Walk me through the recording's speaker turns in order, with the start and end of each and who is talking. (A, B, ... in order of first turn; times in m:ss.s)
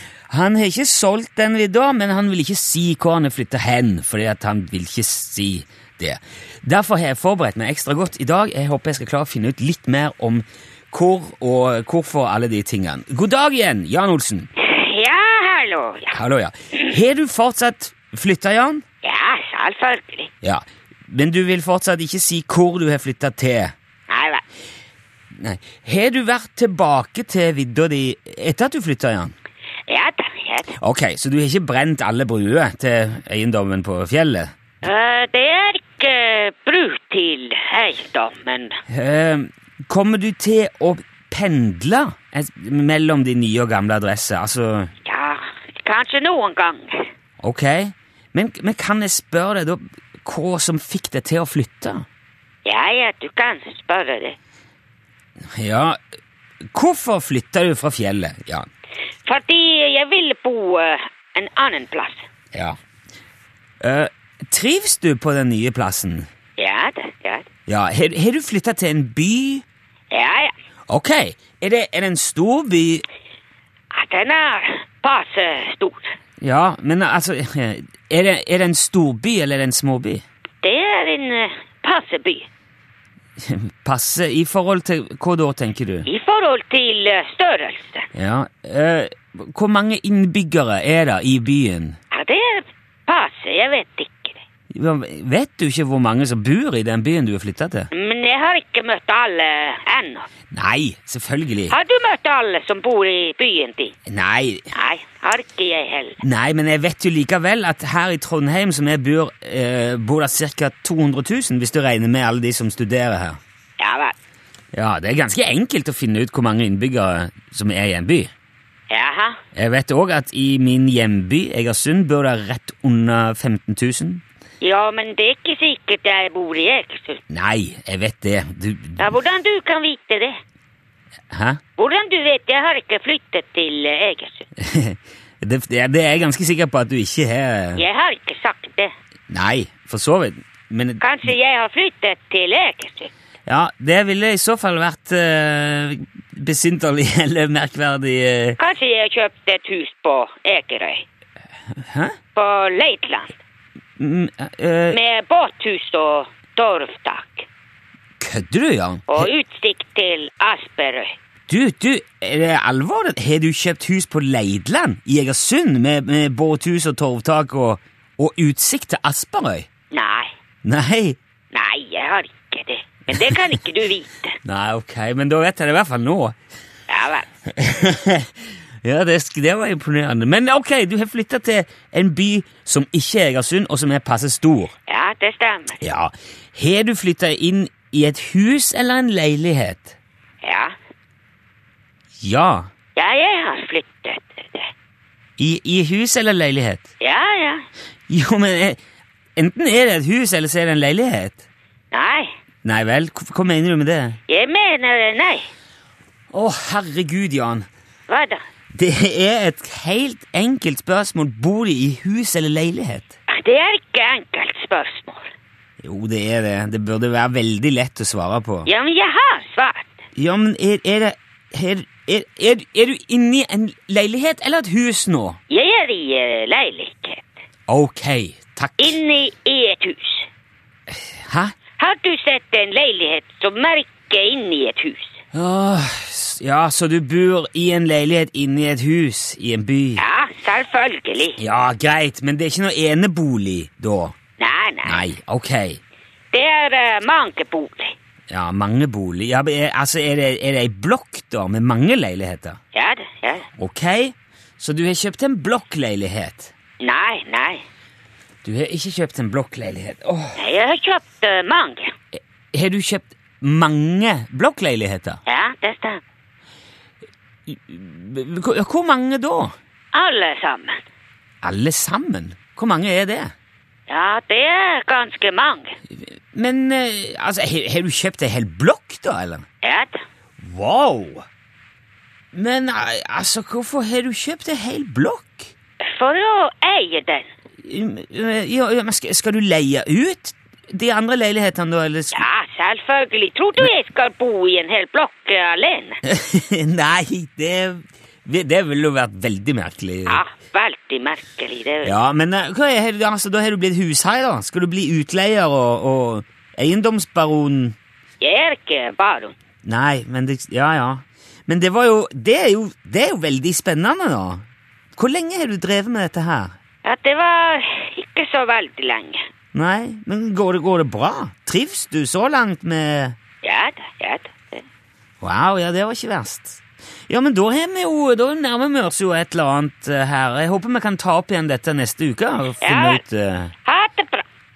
0:00.3-0:14.5 A
0:14.6-0:16.2 B
0:16.1-0:18.8 A
0:19.0-0:20.3 B
0:20.4-0:23.7 A
0:24.1-0:24.4 B
0:25.3-0:29.3 A
0:29.9-0:30.8 B
0:30.8-0:34.5 A
0:34.8-0:38.8 B
0:38.9-0:44.9 A
0:45.0-0:47.1 B
0:47.4-0:52.1 A
0:52.6-0:54.4 B
0:55.6-0:56.0 A
0:56.7-0:58.7 A
0:59.3-1:02.2 B
1:03.8-1:06.3 A
1:06.6-1:07.5 B
1:07.7-1:09.6 A
1:10.1-1:10.5 B
1:10.9-1:13.0 A
1:13.9-1:16.1 B
1:16.4-1:20.2 A
1:20.6-1:22.5 B
1:23.4-1:26.1 A
1:26.1-1:28.1 B
1:28.2-1:32.0 A
1:32.1-1:34.4 B
1:34.7-1:37.9 A
1:37.9-1:40.3 B
1:40.5-1:41.8 A
1:41.7-1:43.9 B
1:44.1-1:44.7 A
1:44.7-1:46.2 B
1:46.2-1:53.4 A
1:53.8-1:54.2 B
1:54.7-1:58.3 A
1:58.9-1:59.4 B
1:59.6-2:04.2 A
2:04.6-2:07.2 B
2:07.3-2:09.1 A
2:09.0-2:10.4 B
2:11.3-2:11.6 A
2:11.8-2:14.5 B
2:14.6-2:17.8 A
2:17.8-2:18.9 B
2:19.3-2:21.3 A
2:21.0-2:23.1 B
2:23.5-2:28.6 A
2:28.6-2:31.0 B
2:31.8-2:32.2 A
2:32.4-2:33.4 B
2:34.0-2:35.0 A
2:34.9-2:37.5 B
2:38.2-2:39.3 A
2:39.1-2:41.2 B
2:41.5-2:49.7 A
2:49.9-2:50.3 B
2:50.6-2:51.2 A
2:51.5-2:54.4 B
2:54.4-2:56.4 A
2:56.9-2:57.3 B
2:57.5-3:04.7 A
3:04.9-3:05.8 B
3:05.8-3:10.0 A
3:10.4-3:10.7 B
3:12.2-3:12.7 A
3:13.0-3:14.7 B
3:15.4-3:16.9 A
3:17.0-3:17.7 B
3:18.1-3:18.8 A
3:19.4-3:21.4 A
3:21.9-3:22.3 B
3:22.6-3:24.2 A
3:24.3-3:25.5 B
3:26.3-3:27.7 A
3:28.1-3:28.4 B
3:28.7-3:33.1 A
3:33.3-3:35.3 B
3:35.8-3:38.7 A
3:38.7-3:39.9 B
3:40.2-3:45.4 A
3:45.5-3:47.4 B
3:47.7-3:49.0 A
3:48.8-3:50.3 B
3:51.1-3:51.6 A
3:51.8-3:55.2 B
3:55.3-4:00.0 A
4:00.0-4:01.4 B
4:01.4-4:04.2 A
4:04.4-4:05.1 B
4:04.9-4:05.8 A
4:06.3-4:07.9 B
4:08.3-4:12.6 A
4:12.7-4:13.5 B
4:13.6-4:16.5 A
4:16.8-4:17.6 B
4:18.4-4:20.4 A
4:20.4-4:21.9 B
4:22.2-4:25.2 A
4:25.3-4:26.0 B
4:27.5-4:29.6 A
4:29.9-4:30.8 B
4:31.4-4:33.3 A
4:33.9-4:35.8 B
4:36.0-4:39.4 A
4:39.6-4:40.0 B
4:40.4-4:41.3 A
4:42.3-4:45.5 A
4:45.8-4:47.3 B
4:47.6-4:52.2 A
4:52.1-4:56.0 B
4:56.0-5:00.2 A
5:00.1-5:01.9 B
5:01.8-5:07.8 A
5:08.2-5:09.4 B
5:09.6-5:14.4 A
5:15.0-5:16.5 A
5:16.8-5:19.2 B
5:19.5-5:23.2 A
5:23.4-5:24.6 B
5:25.2-5:33.5 A
5:32.6-5:33.0 B
5:33.6-5:34.2 B